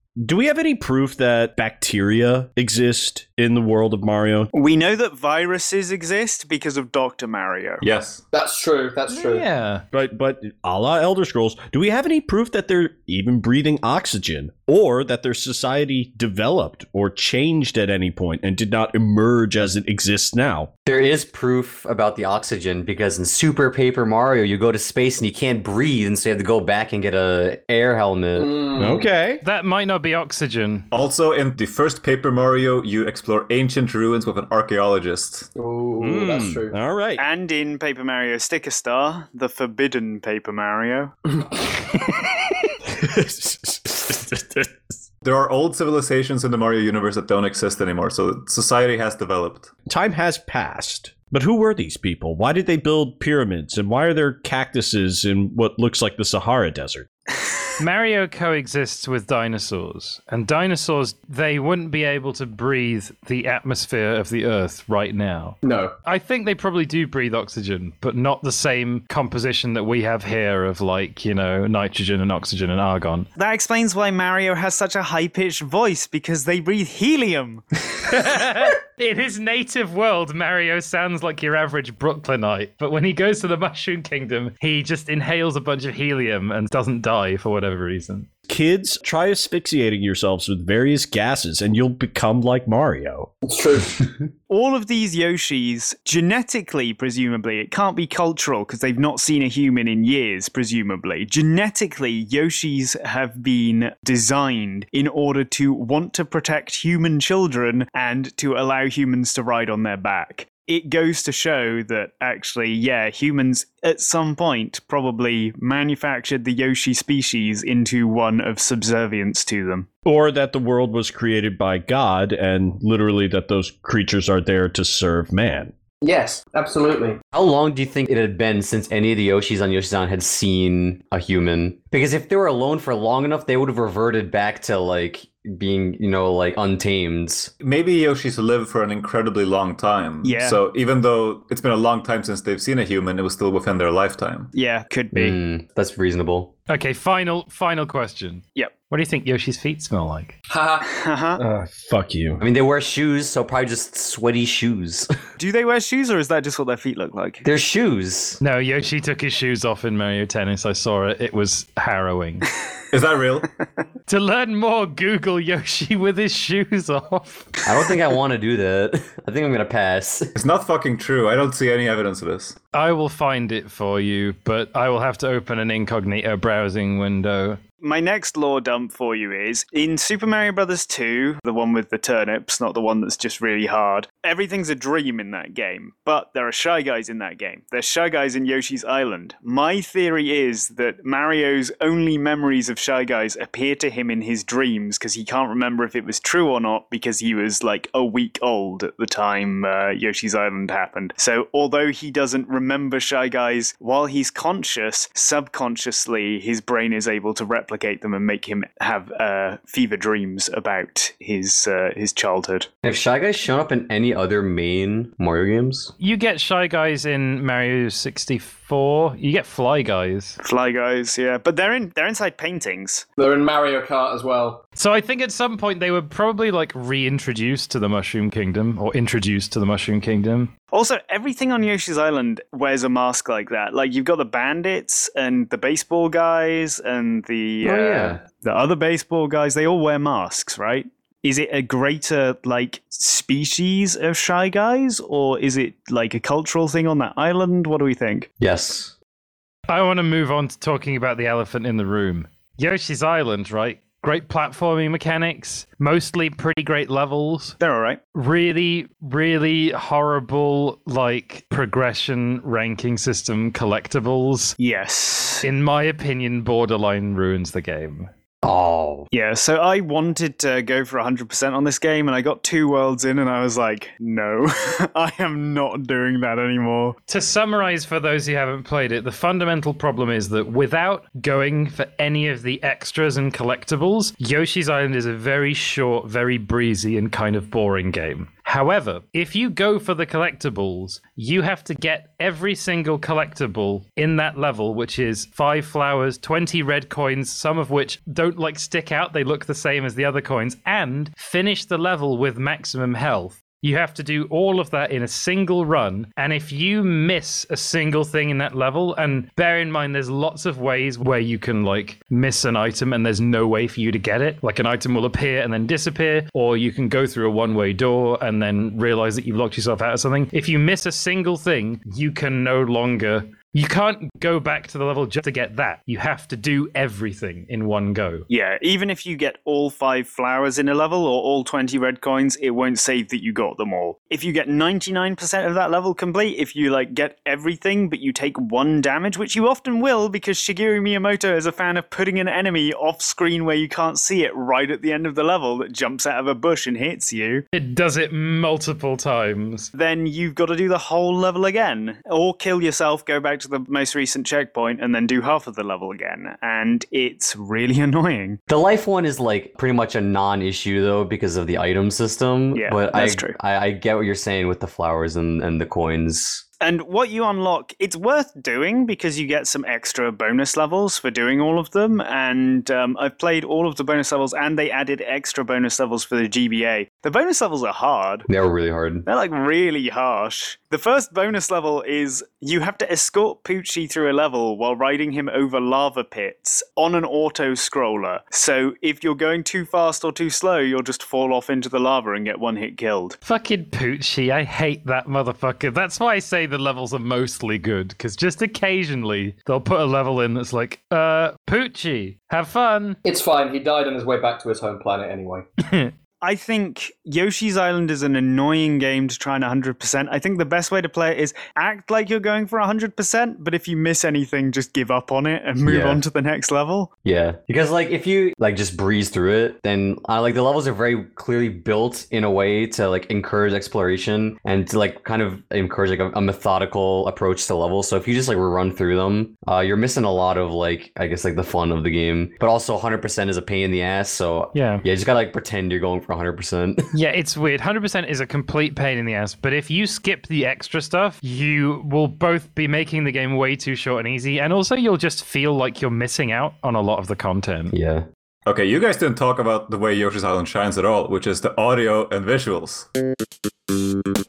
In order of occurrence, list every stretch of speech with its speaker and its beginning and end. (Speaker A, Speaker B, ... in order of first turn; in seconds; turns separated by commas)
Speaker A: 0.2-4.5, Speaker B: 4.5-7.8, Speaker C: 7.8-8.2, Speaker D: 8.3-9.4, Speaker E: 9.1-9.8, Speaker A: 9.9-20.7, Speaker F: 20.9-28.5, Speaker D: 28.4-29.1, Speaker A: 28.8-29.4, Speaker E: 29.4-30.9, Speaker C: 30.9-35.5, Speaker D: 35.5-36.7, Speaker A: 36.0-37.2, Speaker B: 37.2-41.1, Speaker A: 43.0-44.7, Speaker C: 45.2-49.7, Speaker A: 49.9-57.1, Speaker E: 57.8-73.3, Speaker D: 65.6-65.9, Speaker B: 73.4-77.6, Speaker E: 78.0-88.3, Speaker A: 88.5-93.3, Speaker D: 93.4-94.0, Speaker B: 94.5-119.9, Speaker A: 120.0-125.7, Speaker D: 126.0-127.2, Speaker F: 127.3-137.5, Speaker C: 137.6-144.5, Speaker B: 140.2-140.6, Speaker B: 144.5-145.4, Speaker F: 145.1-146.5, Speaker E: 146.7-150.3, Speaker D: 150.5-150.9, Speaker B: 150.9-151.4, Speaker A: 151.4-152.4, Speaker F: 152.4-155.1, Speaker B: 155.4-157.4, Speaker F: 157.4-158.4, Speaker E: 158.4-162.5, Speaker C: 162.9-163.5, Speaker E: 164.1-167.6, Speaker F: 167.6-170.3, Speaker C: 170.3-172.6, Speaker E: 172.7-177.6, Speaker B: 177.8-212.7, Speaker F: 212.8-215.9, Speaker E: 216.0-220.4, Speaker B: 220.4-223.0, Speaker D: 223.2-224.6, Speaker E: 224.8-230.5, Speaker B: 230.7-248.3, Speaker F: 237.6-238.2, Speaker F: 248.4-248.9, Speaker E: 249.7-257.6, Speaker B: 257.6-258.0, Speaker E: 258.1-264.5, Speaker B: 264.6-265.5, Speaker E: 265.4-268.1, Speaker F: 268.4-269.1, Speaker B: 269.1-276.9, Speaker E: 277.1-328.2, Speaker B: 328.3-347.4, Speaker E: 347.5-349.7, Speaker B: 349.7-358.4, Speaker F: 358.5-366.4, Speaker B: 362.5-363.4, Speaker B: 366.6-378.3, Speaker F: 378.3-379.1, Speaker B: 379.1-393.2, Speaker E: 393.2-403.0, Speaker D: 403.0-405.4, Speaker E: 405.6-405.9, Speaker B: 406.2-416.9, Speaker F: 415.6-416.0, Speaker F: 417.0-436.9, Speaker E: 434.5-434.8, Speaker E: 436.9-447.7, Speaker F: 447.7-448.1, Speaker C: 448.4-452.9